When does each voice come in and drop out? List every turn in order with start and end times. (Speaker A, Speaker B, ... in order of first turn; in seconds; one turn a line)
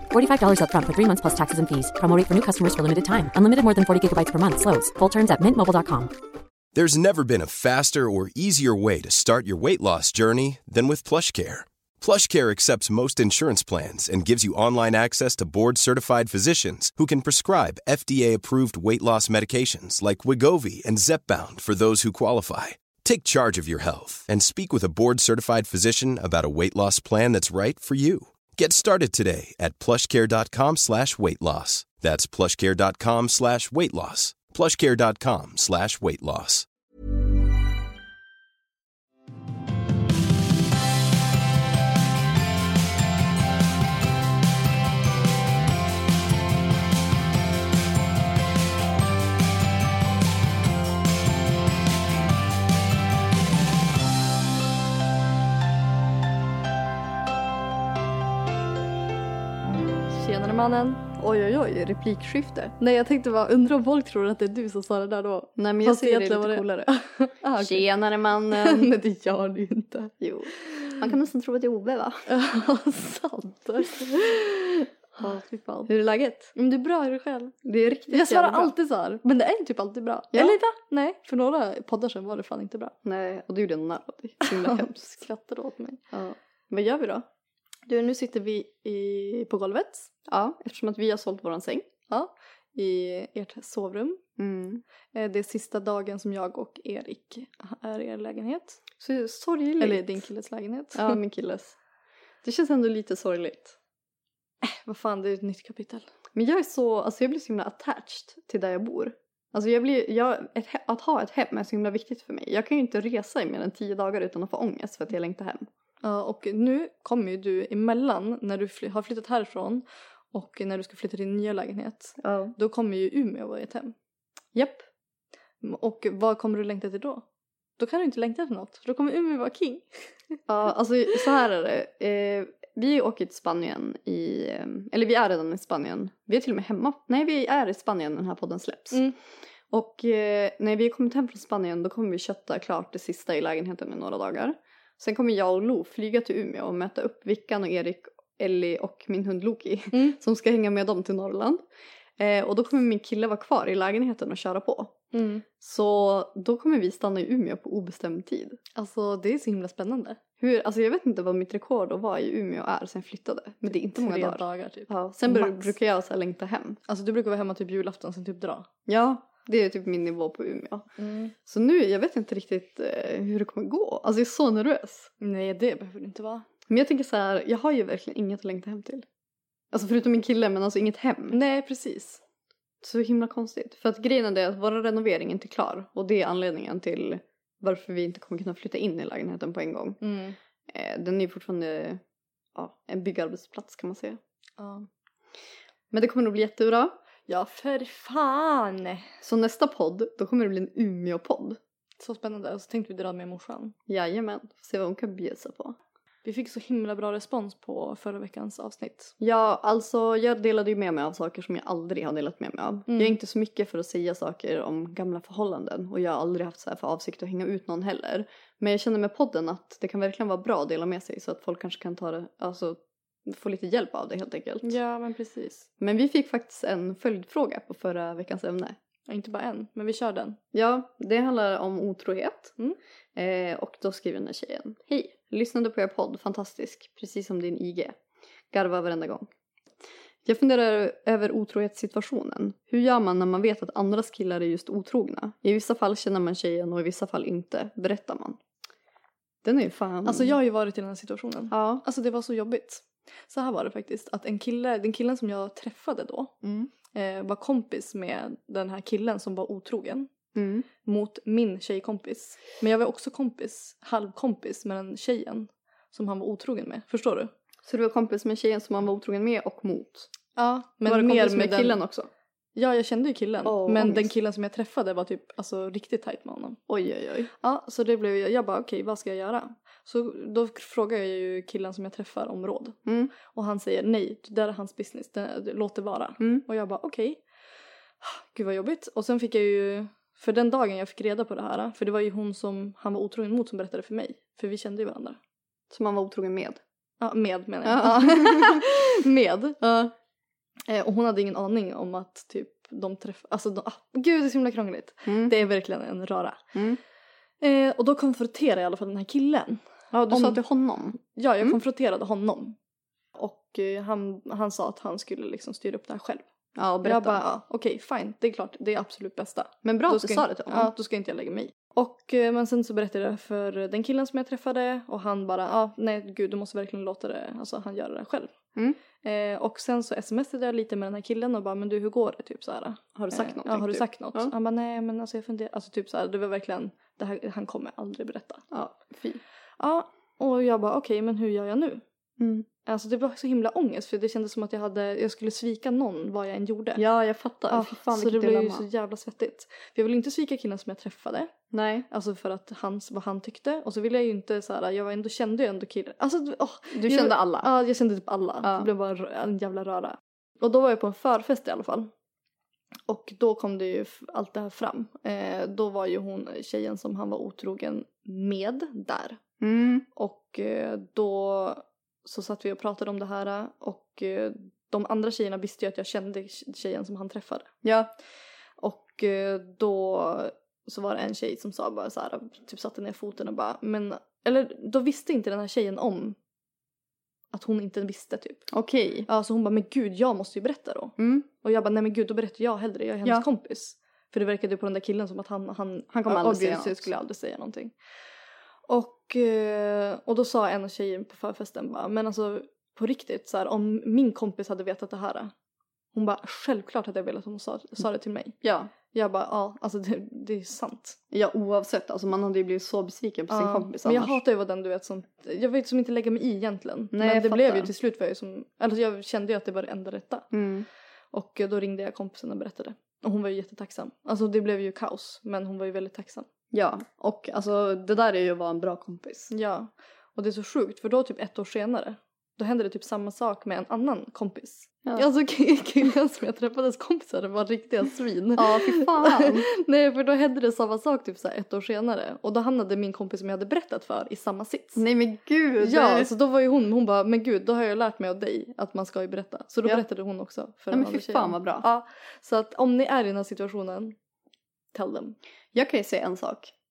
Speaker A: 0.1-6.1
Speaker B: 6.7-36.6
Speaker C: 60.1-61.0
Speaker D: 61.2-62.7
Speaker C: 62.8-70.1
Speaker D: 65.6-66.9
Speaker D: 67.5-68.9
Speaker D: 70.2-72.2
Speaker C: 70.7-70.9
Speaker C: 72.3-75.9
Speaker D: 75.9-76.5
Speaker C: 76.5-77.5
Speaker D: 77.6-78.7
Speaker C: 78.1-82.9
Speaker D: 80.3-80.6
Speaker D: 83.0-85.2
Speaker C: 84.4-86.0
Speaker D: 86.1-87.2
Speaker C: 87.9-90.1
Speaker D: 90.3-91.9
Speaker C: 92.1-94.2
Speaker D: 94.4-94.8
Speaker C: 95.1-98.8
Speaker D: 99.0-100.3
Speaker C: 99.8-101.2
Speaker D: 100.9-101.8
Speaker D: 102.4-103.8
Speaker C: 104.6-106.1
Speaker D: 106.3-115.7
Speaker C: 116.0-123.9
Speaker D: 122.2-122.5
Speaker D: 124.5-124.8
Speaker C: 125.6-127.2
Speaker C: 127.8-129.9
Speaker D: 130.5-139.1
Speaker D: 139.7-151.6
Speaker C: 149.9-150.2
Speaker D: 152.2-155.0
Speaker C: 155.1-155.4
Speaker D: 155.5-158.6
Speaker C: 158.7-160.2
Speaker D: 160.4-166.8
Speaker C: 163.6-165.7
Speaker C: 166.9-168.7
Speaker D: 168.9-170.9
Speaker C: 171.0-171.3
Speaker D: 171.4-175.1
Speaker C: 175.2-176.4
Speaker D: 176.7-179.0
Speaker D: 179.7-181.4
Speaker C: 181.3-182.2
Speaker D: 182.8-190.0
Speaker C: 190.0-190.3
Speaker D: 190.7-192.0
Speaker D: 192.6-194.2
Speaker C: 194.6-194.9
Speaker D: 195.9-197.0
Speaker C: 197.3-199.1
Speaker D: 199.2-201.6
Speaker C: 202.0-203.7
Speaker D: 203.9-205.8
Speaker C: 206.2-209.1
Speaker D: 209.2-224.8
Speaker C: 212.9-213.2
Speaker C: 224.6-225.7
Speaker D: 225.8-228.8
Speaker C: 229.1-230.4
Speaker D: 230.5-232.6
Speaker D: 233.1-237.9
Speaker D: 238.5-239.3
Speaker D: 240.2-248.4
Speaker D: 249.4-250.3
Speaker C: 250.0-256.3
Speaker D: 251.5-251.8
Speaker D: 256.4-256.7
Speaker C: 256.9-260.1
Speaker D: 260.3-260.7
Speaker C: 260.8-267.3
Speaker D: 267.6-270.1
Speaker C: 270.3-271.8
Speaker D: 270.8-272.1
Speaker C: 272.6-276.6
Speaker D: 273.4-274.1
Speaker D: 276.7-277.3
Speaker C: 277.3-287.2
Speaker D: 282.9-283.1
Speaker D: 286.2-286.4
Speaker C: 288.0-295.2
Speaker D: 295.7-296.6
Speaker C: 297.0-299.6
Speaker D: 297.6-298.7
Speaker D: 299.6-299.9
Speaker C: 300.7-306.4
Speaker D: 305.1-305.3
Speaker D: 306.5-306.8
Speaker C: 307.4-310.4
Speaker D: 309.9-311.6
Speaker C: 311.0-312.6
Speaker C: 313.1-316.2
Speaker D: 316.6-317.2
Speaker C: 316.8-328.3
Speaker D: 319.6-320.7
Speaker C: 329.0-338.4
Speaker D: 332.9-334.3
Speaker D: 338.5-339.2
Speaker C: 339.6-341.8
Speaker D: 342.2-342.5
Speaker C: 342.6-346.8
Speaker D: 346.8-348.6
Speaker C: 347.5-351.3
Speaker D: 351.5-351.9
Speaker C: 351.9-361.9
Speaker D: 356.7-357.5
Speaker D: 358.4-358.7
Speaker C: 362.9-369.2
Speaker D: 369.4-369.9
Speaker C: 369.9-377.5
Speaker D: 377.6-377.9
Speaker C: 378.6-386.2
Speaker C: 387.3-388.5
Speaker D: 388.5-389.1
Speaker C: 389.1-397.7
Speaker D: 391.0-391.3
Speaker D: 395.9-396.9
Speaker C: 398.7-405.3
Speaker C: 405.9-411.0
Speaker D: 408.4-408.7
Speaker D: 411.1-414.2
Speaker C: 413.3-420.3
Speaker D: 416.9-417.7
Speaker D: 420.3-420.7
Speaker C: 421.1-426.3
Speaker D: 426.5-429.3
Speaker C: 429.3-444.8
Speaker D: 438.4-439.5
Speaker D: 444.8-446.1
Speaker C: 445.6-453.9
Speaker D: 450.7-451.6
Speaker C: 454.7-455.2
Speaker D: 455.5-456.5